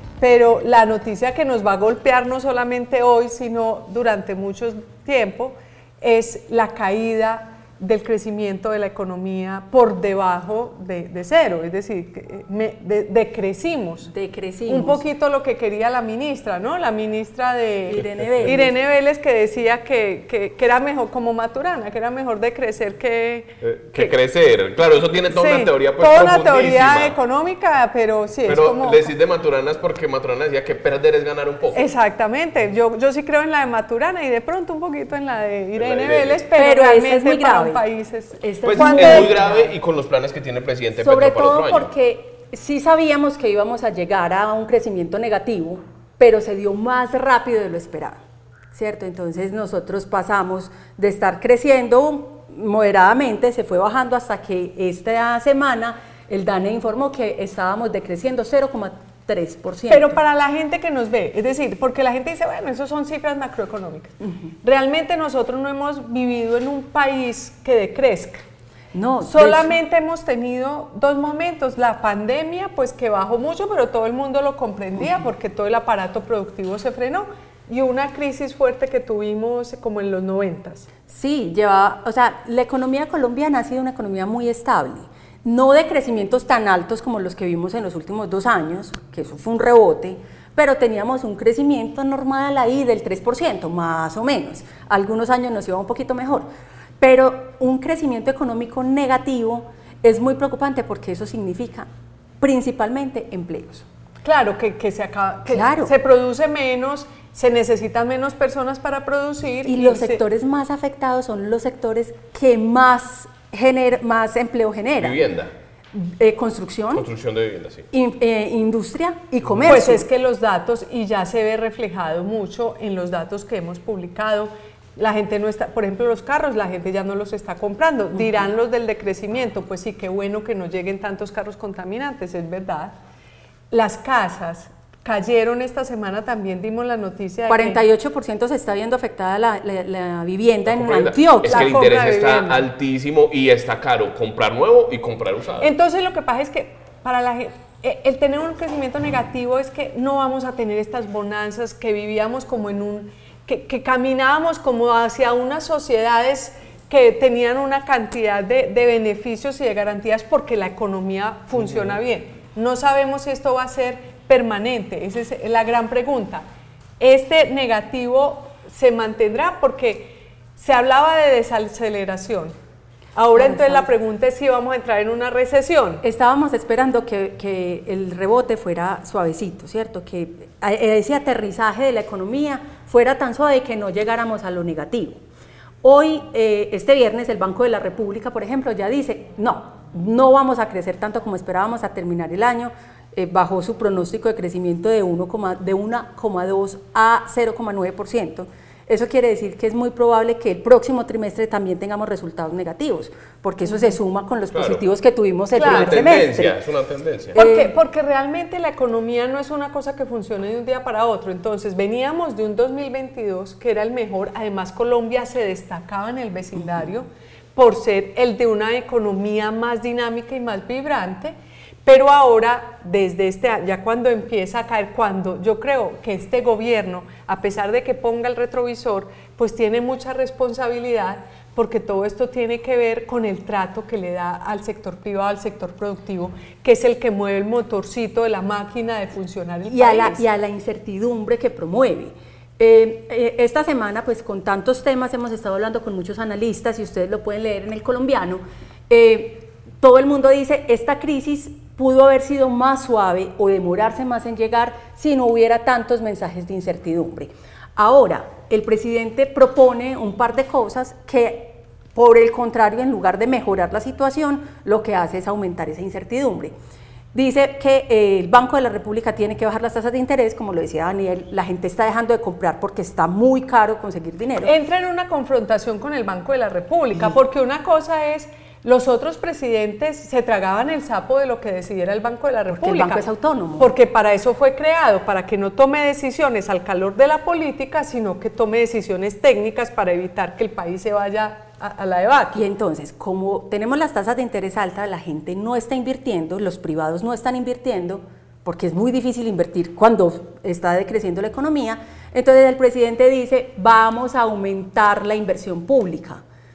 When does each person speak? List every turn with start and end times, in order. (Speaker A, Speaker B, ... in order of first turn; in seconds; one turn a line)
Speaker A: 0.2-14.1
Speaker B: 14.1-15.0
Speaker A: 14.7-24.1
Speaker B: 17.9-18.7
Speaker C: 18.0-18.5
Speaker C: 23.6-27.1
Speaker A: 25.3-29.1
Speaker C: 28.5-31.8
Speaker A: 31.7-39.7
Speaker C: 35.8-36.4
Speaker B: 36.5-37.8
Speaker B: 38.4-39.7
Speaker C: 38.6-41.9
Speaker B: 41.0-48.2
Speaker B: 48.7-60.2
Speaker A: 59.9-68.4
Speaker B: 68.9-69.7
Speaker A: 69.2-80.9
Speaker B: 81.1-96.5
Speaker B: 97.0-101.9
Speaker B: 102.4-103.8
Speaker A: 104.2-110.2
Speaker B: 105.5-105.9
Speaker B: 109.6-115.2
Speaker C: 115.0-115.5
Speaker B: 115.9-117.1
Speaker C: 116.9-117.9
Speaker B: 117.9-120.1
Speaker A: 119.6-132.9
Speaker A: 133.7-137.8
Speaker B: 137.5-141.8
Speaker C: 140.7-145.7
Speaker A: 141.5-142.7
Speaker A: 145.6-166.4
Speaker A: 167.0-172.5
Speaker A: 173.1-176.0
Speaker B: 173.3-173.9
Speaker B: 176.0-185.2
Speaker B: 185.8-206.5
Speaker C: 204.5-204.8
Speaker A: 205.6-205.9
Speaker C: 205.6-207.3
Speaker B: 207.3-207.7
Speaker A: 207.3-240.2
Speaker B: 239.6-266.5
Speaker B: 267.1-274.5
Speaker A: 274.4-283.1
Speaker B: 282.5-283.7
Speaker A: 283.6-292.4
Speaker B: 292.3-306.2